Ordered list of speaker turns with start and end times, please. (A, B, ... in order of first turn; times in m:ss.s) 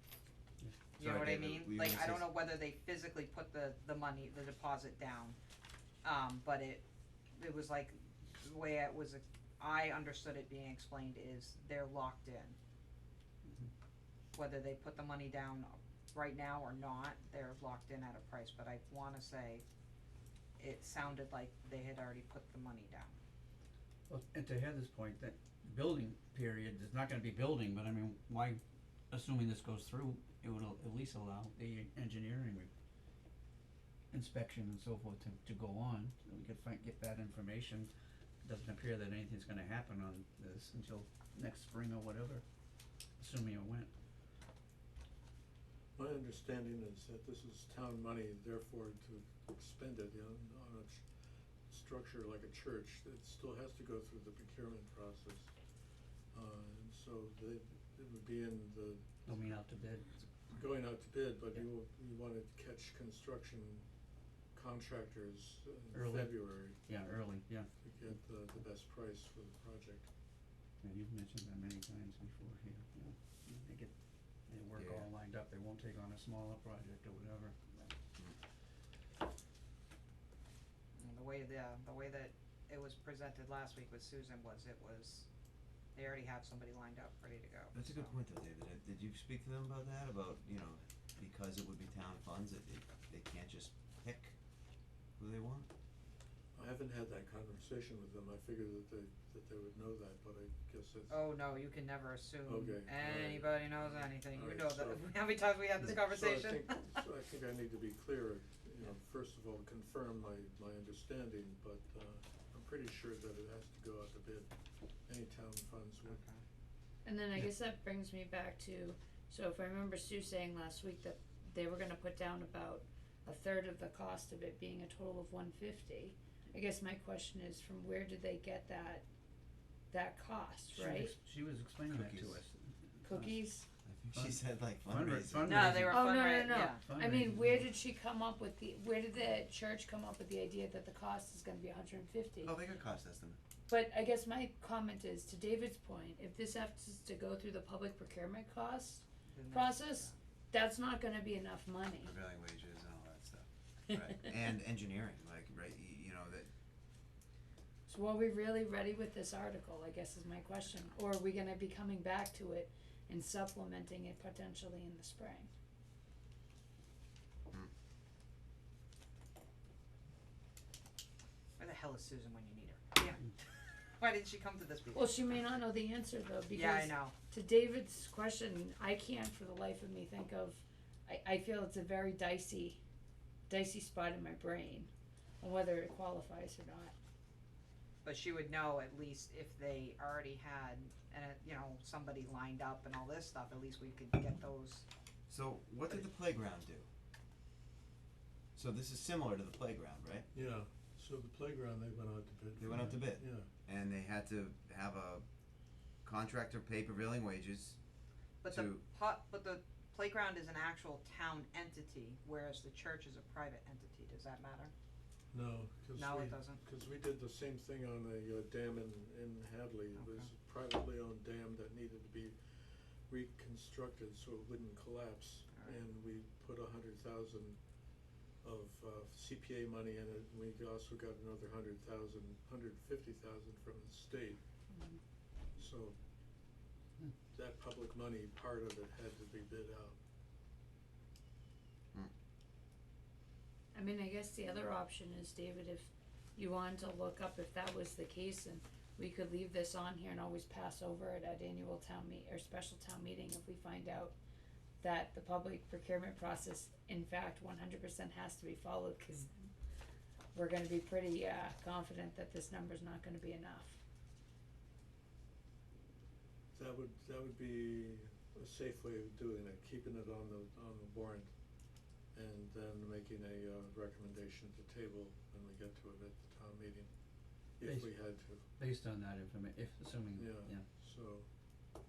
0:01.0-0:05.4 A
0:01.0-0:02.3 B
0:06.0-0:06.8 A
0:07.4-0:12.6 A
0:13.4-0:13.7 C
0:14.3-0:19.6 A
0:20.6-0:23.2 A
0:24.1-0:32.7 C
0:34.1-0:37.9 C
0:38.4-0:42.4 C
0:43.2-0:43.9 C
0:46.0-0:51.0 D
0:51.7-0:55.5 D
0:56.3-0:59.3 D
0:59.2-1:00.1 C
1:00.5-1:03.8 D
1:04.5-1:06.8 D
1:05.9-1:07.7 C
1:07.8-1:10.1 D
1:10.8-1:13.9 C
1:14.5-1:17.9 C
1:14.8-1:15.1 B
1:21.0-1:25.3 A
1:26.0-1:28.2 A
1:27.7-1:34.4 B
1:35.2-1:35.7 B
1:36.5-1:41.2 D
1:41.1-1:46.9 A
1:42.4-1:45.4 D
1:45.9-1:54.5 D
1:55.1-1:56.2 D
1:56.1-1:56.4 A
1:57.0-2:09.0 E
2:09.9-2:11.1 E
2:10.7-2:13.3 C
2:11.9-2:12.4 B
2:13.0-2:13.7 E
2:13.8-2:15.8 B
2:14.1-2:17.6 C
2:15.4-2:16.8 A
2:15.9-2:22.5 E
2:22.4-2:23.4 B
2:23.7-2:32.1 E
2:29.3-2:30.2 A
2:32.0-2:36.5 B
2:37.9-2:45.5 E
2:51.6-2:53.3 A
2:54.0-2:55.1 A
2:54.9-3:02.8 E
2:56.5-2:57.1 A
3:03.5-3:04.9 E
3:05.4-3:06.9 E
3:08.0-3:14.8 A
3:15.3-3:16.9 B
3:18.6-3:20.3 B
3:20.3-3:23.5 D
3:22.6-3:25.2 B
3:26.0-3:27.8 B
3:28.4-3:34.7 A
3:28.5-3:28.8 B
3:35.3-3:42.4 D
3:36.0-3:36.6 A
3:40.0-3:40.3 A
3:43.1-3:47.6 D
3:45.5-3:45.8 A
3:48.4-3:54.4 D
3:55.6-3:56.0 D
3:57.3-4:00.0 D
4:03.7-4:14.2 E
4:14.8-4:19.5 E
4:20.3-4:23.8 E
4:26.5-4:31.3 D
4:32.1-4:36.9 D
4:37.6-4:38.4 D
4:37.6-4:40.6 C
4:40.2-4:41.3 D